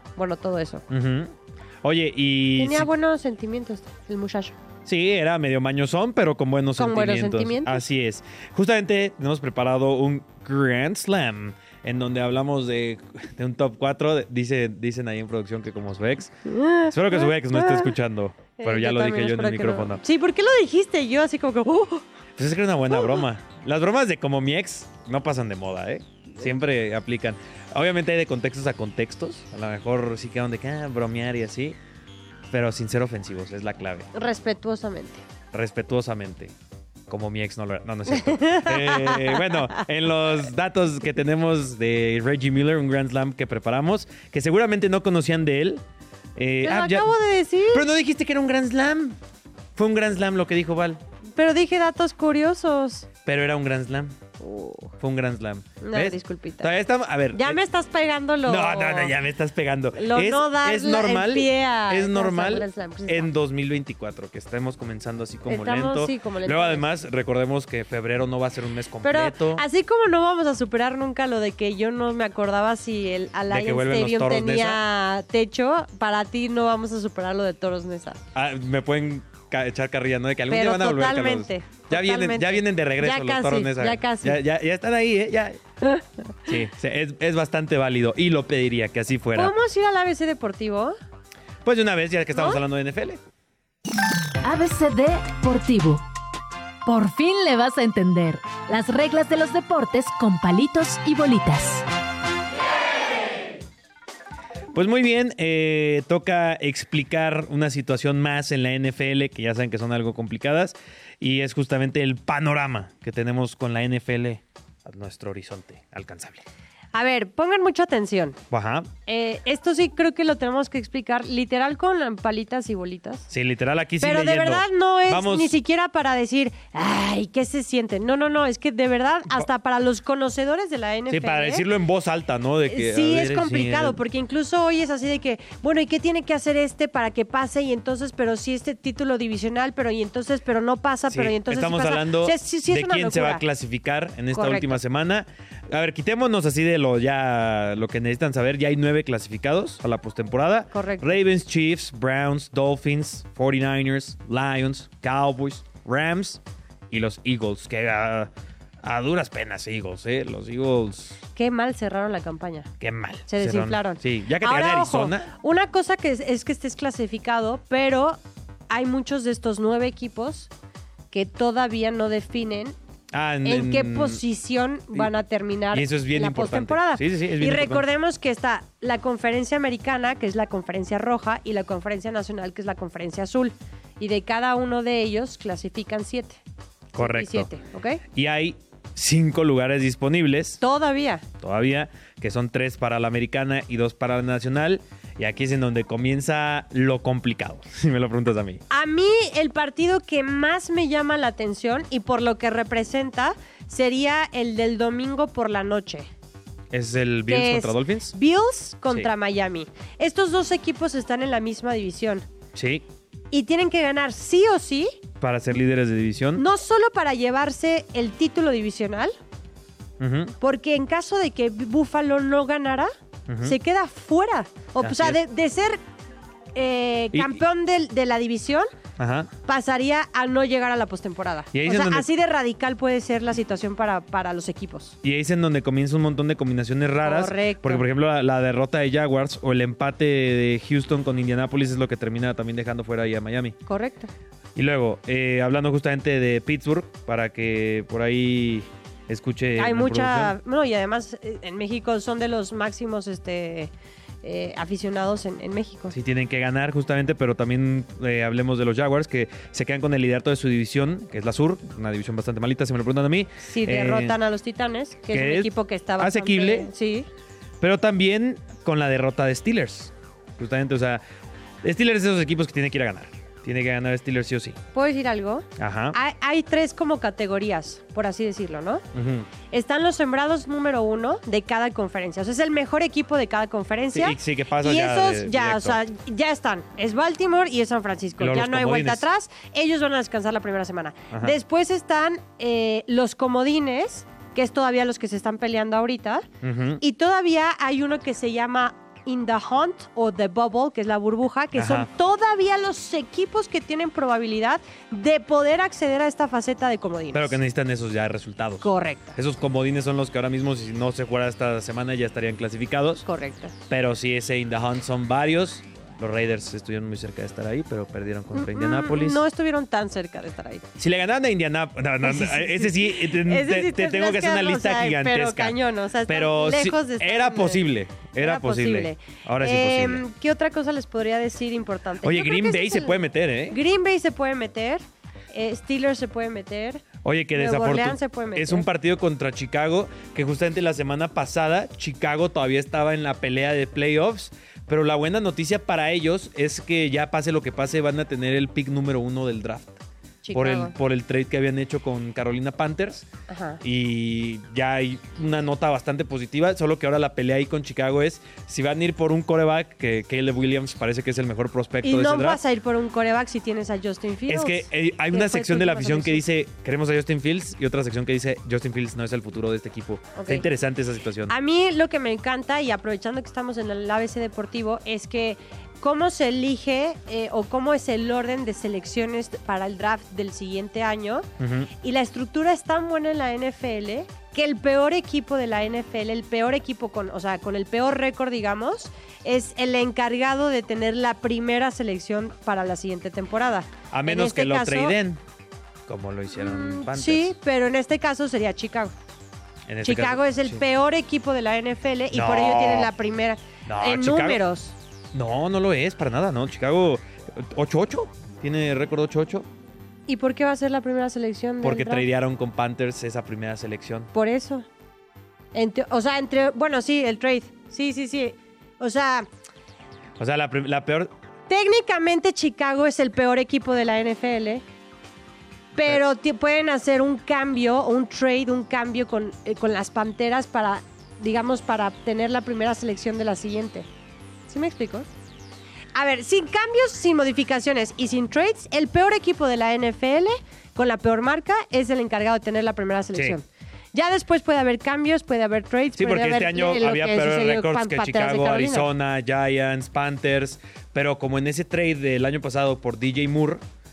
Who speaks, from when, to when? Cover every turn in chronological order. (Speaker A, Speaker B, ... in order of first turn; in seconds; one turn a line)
Speaker A: 0.1-0.8
Speaker B: 0.9-1.3
Speaker B: 1.8-2.9
Speaker A: 2.6-4.5
Speaker B: 4.8-16.3
Speaker A: 6.8-7.8
Speaker A: 16.4-17.9
Speaker B: 16.9-20.0
Speaker A: 18.6-22.0
Speaker B: 22.4-31.8
Speaker B: 32.5-34.1
Speaker A: 34.1-35.2
Speaker B: 35.5-36.5
Speaker B: 37.1-45.8
Speaker A: 38.1-39.7
Speaker B: 46.4-47.1
Speaker A: 46.6-47.8
Speaker B: 47.7-49.2
Speaker B: 49.8-51.0
Speaker A: 51.4-53.1
Speaker B: 53.2-54.1
Speaker A: 54.4-55.0
Speaker B: 55.0-57.6
Speaker A: 55.8-56.7
Speaker A: 57.3-59.1
Speaker B: 58.5-69.6
Speaker A: 60.0-63.3
Speaker A: 65.5-66.8
Speaker A: 69.0-78.2
Speaker B: 73.5-74.8
Speaker B: 78.3-85.6
Speaker A: 80.5-84.4
Speaker B: 86.4-89.5
Speaker A: 89.3-91.0
Speaker B: 91.6-93.2
Speaker A: 92.3-92.6
Speaker C: 94.4-96.0
Speaker C: 96.8-101.8
Speaker B: 104.7-116.4
Speaker A: 116.9-118.4
Speaker B: 118.5-118.9
Speaker A: 119.0-123.3
Speaker B: 123.3-125.5
Speaker A: 124.0-131.6
Speaker B: 131.1-134.0
Speaker A: 132.7-143.4
Speaker B: 141.1-158.3
Speaker A: 144.3-144.8
Speaker A: 150.7-151.2
Speaker B: 158.8-161.2
Speaker A: 161.3-162.7
Speaker B: 162.8-165.3
Speaker A: 163.3-168.2
Speaker A: 168.7-170.5
Speaker A: 171.1-172.8
Speaker B: 173.1-174.2
Speaker A: 173.4-186.4
Speaker B: 175.7-177.8
Speaker A: 186.9-188.0
Speaker B: 186.9-187.5
Speaker B: 188.1-190.6
Speaker A: 190.6-191.2
Speaker B: 191.4-198.6
Speaker A: 198.7-206.1
Speaker B: 206.7-208.1
Speaker A: 207.3-212.2
Speaker B: 212.5-212.8
Speaker A: 213.3-215.0
Speaker B: 215.2-216.4
Speaker A: 216.3-219.1
Speaker B: 220.0-220.3
Speaker A: 220.4-222.9
Speaker B: 223.3-223.6
Speaker A: 223.4-225.8
Speaker B: 224.8-225.2
Speaker A: 226.5-228.7
Speaker B: 227.1-227.4
Speaker B: 229.0-229.3
Speaker A: 229.4-234.9
Speaker B: 231.5-232.1
Speaker B: 235.0-243.6
Speaker A: 237.0-237.8
Speaker A: 243.7-244.1
Speaker B: 244.6-250.3
Speaker A: 249.6-253.7
Speaker A: 254.2-255.9
Speaker B: 255.9-264.2
Speaker A: 263.4-267.1
Speaker B: 265.1-266.7
Speaker B: 267.6-271.0
Speaker B: 271.6-274.6
Speaker A: 274.7-278.8
Speaker B: 275.6-275.9
Speaker B: 278.9-279.3
Speaker A: 279.5-296.2
Speaker B: 283.9-285.8
Speaker B: 288.2-289.0
Speaker B: 296.4-296.8
Speaker A: 296.8-307.4
Speaker B: 301.5-301.9
Speaker B: 307.1-313.0
Speaker A: 308.6-309.1
Speaker A: 313.0-313.5
Speaker B: 313.7-319.2
Speaker A: 318.3-320.6
Speaker B: 320.8-330.0
Speaker A: 322.0-327.6
Speaker A: 328.2-333.0
Speaker B: 332.0-333.6
Speaker A: 333.5-336.8
Speaker B: 337.0-349.8
Speaker A: 337.3-338.7
Speaker A: 350.2-350.7
Speaker B: 350.3-353.1
Speaker A: 353.3-353.6
Speaker B: 353.6-362.4
Speaker A: 361.8-366.2
Speaker B: 364.3-371.3
Speaker A: 370.1-370.4
Speaker A: 371.3-381.3
Speaker B: 381.4-381.7
Speaker A: 381.8-395.0
Speaker B: 393.9-395.2
Speaker B: 395.9-397.3
Speaker A: 396.3-398.9
Speaker B: 399.7-400.6
Speaker A: 399.8-404.7
Speaker B: 402.1-402.9
Speaker B: 403.7-404.4
Speaker B: 405.1-409.5
Speaker A: 410.1-412.1
Speaker B: 411.6-414.1
Speaker A: 414.1-414.6
Speaker A: 415.5-419.3
Speaker B: 420.2-421.1
Speaker A: 421.5-424.6
Speaker A: 425.7-433.9
Speaker A: 434.5-435.1
Speaker A: 435.9-448.9
Speaker B: 446.0-453.6